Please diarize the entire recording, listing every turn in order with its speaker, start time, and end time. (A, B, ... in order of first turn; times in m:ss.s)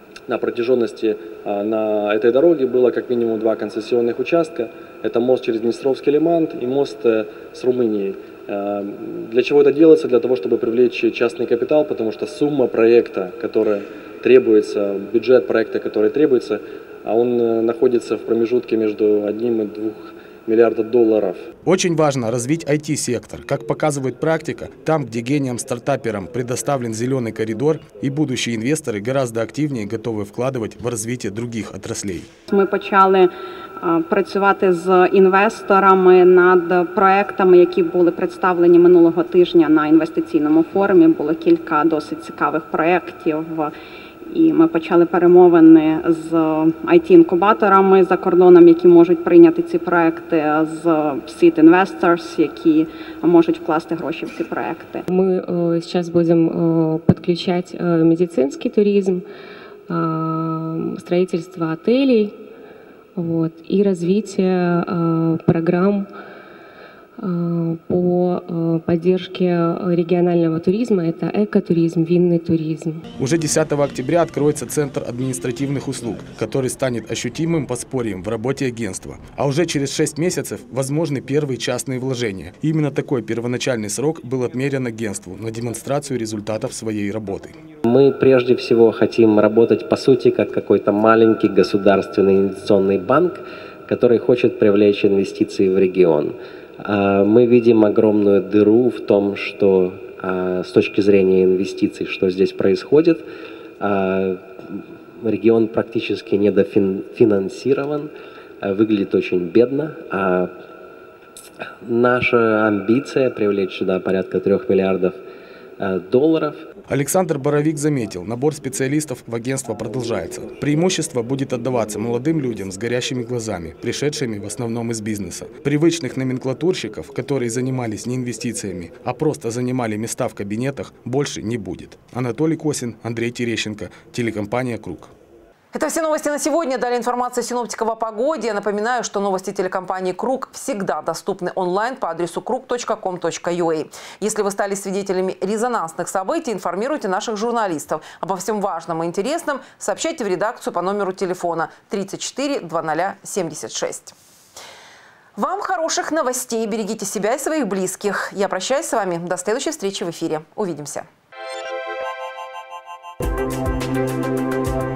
0:00.3-0:21.5 A
0:21.6-0:32.3 B
0:32.5-0:43.7 C
0:44.3-0:55.0 C
0:55.1-0:59.3 D
0:59.9-1:02.4 D
1:03.2-1:06.1 D
1:07.2-1:13.0 D
1:13.2-1:27.6 B
1:27.8-1:43.3 E
1:43.8-1:50.6 E
1:51.8-1:55.2 E
1:55.8-1:56.7 E
1:56.9-2:15.1 B
2:15.7-2:34.1 F
2:35.4-2:41.1 F